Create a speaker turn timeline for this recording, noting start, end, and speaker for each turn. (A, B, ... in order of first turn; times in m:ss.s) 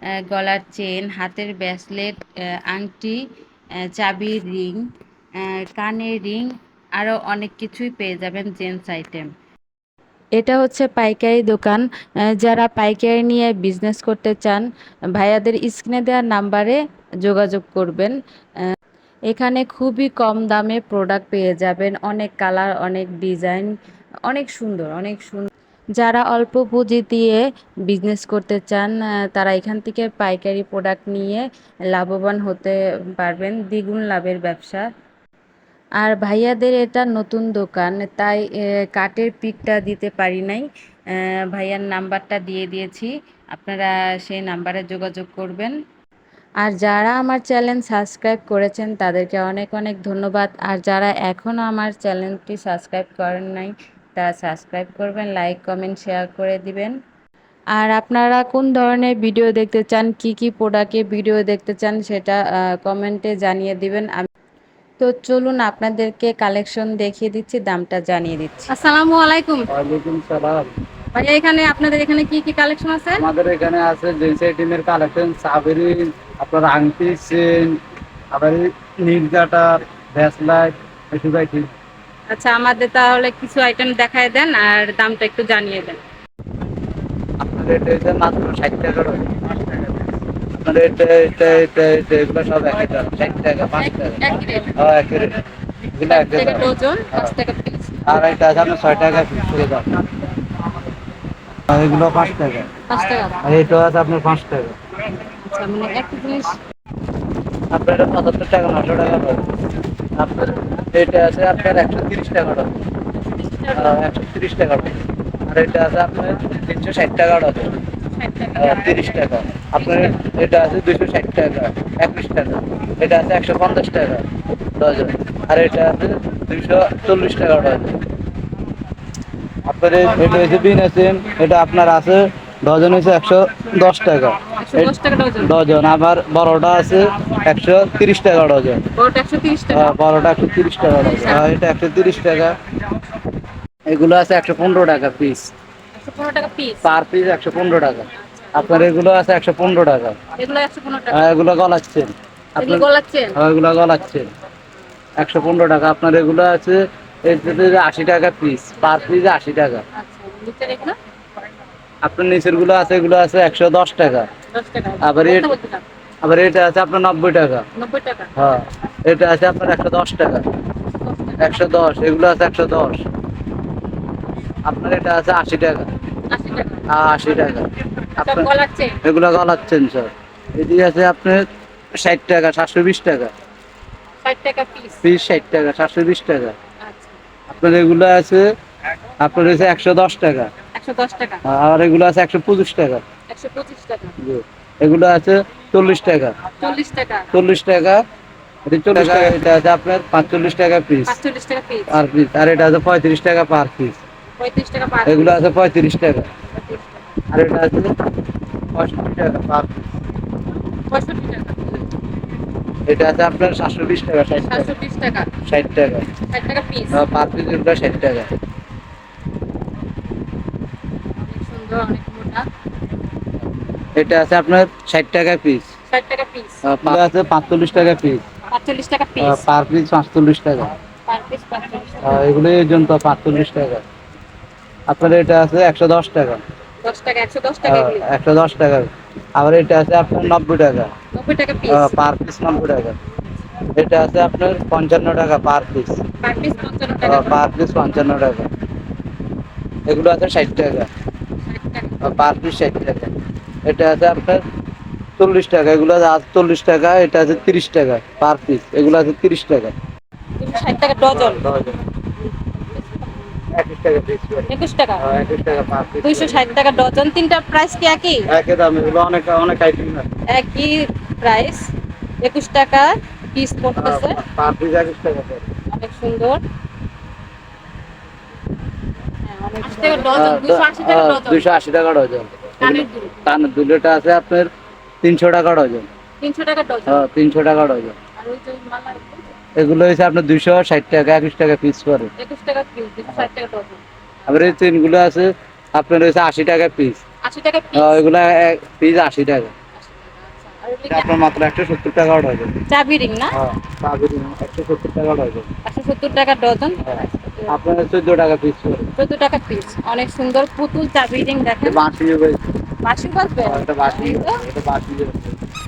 0:00.3-0:03.2 A
0:03.8-0:04.8 A
0:05.4-0:09.3 A
0:10.4-0:11.8 A
0:12.4-0:18.2 A
0:19.3-0:23.7 A
0:24.3-0:34.8 A
0:36.0-0:40.7 A
0:41.5-0:45.8 A
0:46.6-0:56.9 A
0:57.8-1:04.3 A
1:05.0-1:08.7 A
1:08.7-1:09.7 B
1:09.7-1:10.7 C
1:11.1-1:13.3 B
1:13.1-1:17.8 C
1:18.3-1:21.7 C
1:22.3-1:26.0 B
1:27.4-1:29.9 C
1:30.6-1:34.2 C
1:33.8-1:34.7 B
1:34.7-1:35.4 C
1:35.9-1:37.3 C
1:36.1-1:38.0 B
1:38.0-1:39.9 C
1:41.7-1:42.7 C
1:42.9-1:43.4 B
1:43.4-1:44.8 C
1:45.2-1:46.6 B
1:47.7-1:49.4 C
1:50.2-1:52.7 C
1:53.3-1:54.0 B
1:53.7-1:57.7 C
1:58.1-2:00.3 B
1:58.6-2:04.2 C
2:04.8-2:08.0 C
2:09.7-2:18.8 C
2:14.6-2:15.6 B
2:19.0-2:20.0 B
2:19.7-2:22.6 C
2:21.0-2:21.5 B
2:23.9-2:25.5 C
2:26.0-2:26.8 B
2:26.8-2:30.2 C
2:28.2-2:28.9 B
2:30.4-2:31.3 B
2:31.1-2:34.3 C
2:32.6-2:33.4 B
2:35.2-2:39.8 C
2:38.8-2:39.2 B
2:39.9-2:41.0 B
2:42.0-2:44.3 C
2:44.5-2:45.8 B
2:45.0-2:45.5 C
2:46.2-2:47.7 C
2:47.8-2:48.3 B
2:48.4-2:50.5 C
2:51.0-2:51.6 B
2:51.4-2:53.1 C
2:54.6-2:55.9 C
2:56.3-2:56.9 B
2:56.9-2:58.5 C
2:58.2-2:59.0 B
2:59.0-3:01.4 C
3:02.0-3:03.3 C
3:04.2-3:05.0 B
3:05.0-3:06.6 C
3:06.8-3:07.2 B
3:07.5-3:08.5 C
3:09.2-3:10.5 C
3:10.7-3:11.4 B
3:11.4-3:13.0 C
3:13.3-3:14.2 B
3:14.2-3:16.4 C
3:16.6-3:17.3 B
3:17.3-3:18.0 C
3:18.7-3:21.1 C
3:21.1-3:22.0 B
3:21.9-3:24.0 C
3:24.4-3:25.4 B
3:25.0-3:26.3 C
3:26.5-3:27.0 B
3:27.3-3:28.0 C
3:28.7-3:29.9 C
3:30.9-3:31.9 B
3:32.9-3:34.7 C
3:34.4-3:35.3 B
3:35.5-3:36.1 C
3:36.3-3:37.0 B
3:36.9-3:38.3 C
3:41.2-3:42.5 B
3:44.0-3:45.7 C
3:45.9-3:46.6 B
3:46.6-3:48.2 C
3:48.5-3:49.5 B
3:49.2-3:50.7 C
3:51.1-3:52.3 B
3:52.0-3:53.8 C
3:54.9-3:56.4 C
3:56.8-3:58.1 B
3:57.6-4:00.9 C
4:01.1-4:02.0 B
4:01.7-4:03.0 C
4:03.8-4:06.0 C
4:06.2-4:07.4 B
4:07.0-4:08.5 C
4:09.9-4:10.9 C
4:11.5-4:12.0 B
4:12.0-4:13.1 C
4:13.7-4:14.4 C
4:15.2-4:19.8 C
4:20.4-4:21.4 B
4:21.1-4:21.8 C
4:22.7-4:23.0 B
4:23.5-4:26.4 C
4:24.5-4:25.0 B
4:26.0-4:28.3 B
4:28.3-4:30.1 C
4:30.3-4:31.7 B
4:32.2-4:34.2 B
4:33.8-4:35.4 C
4:35.7-4:36.4 B
4:39.2-4:41.6 B
4:40.1-4:44.5 C
4:42.6-4:43.3 B
4:45.0-4:45.9 C
4:46.2-4:47.1 B
4:46.9-4:48.0 C
4:48.2-4:49.2 B
4:49.6-4:52.1 C
4:52.2-4:54.5 B
4:54.3-4:57.0 C
4:57.2-4:58.0 B
4:57.7-4:59.5 C
4:59.8-5:01.1 B
5:00.9-5:02.5 C
5:02.7-5:03.4 B
5:03.3-5:05.5 C
5:05.6-5:07.6 B
5:06.8-5:08.8 C
5:08.9-5:11.8 B
5:11.6-5:12.4 C
5:12.8-5:14.4 B
5:13.4-5:15.4 C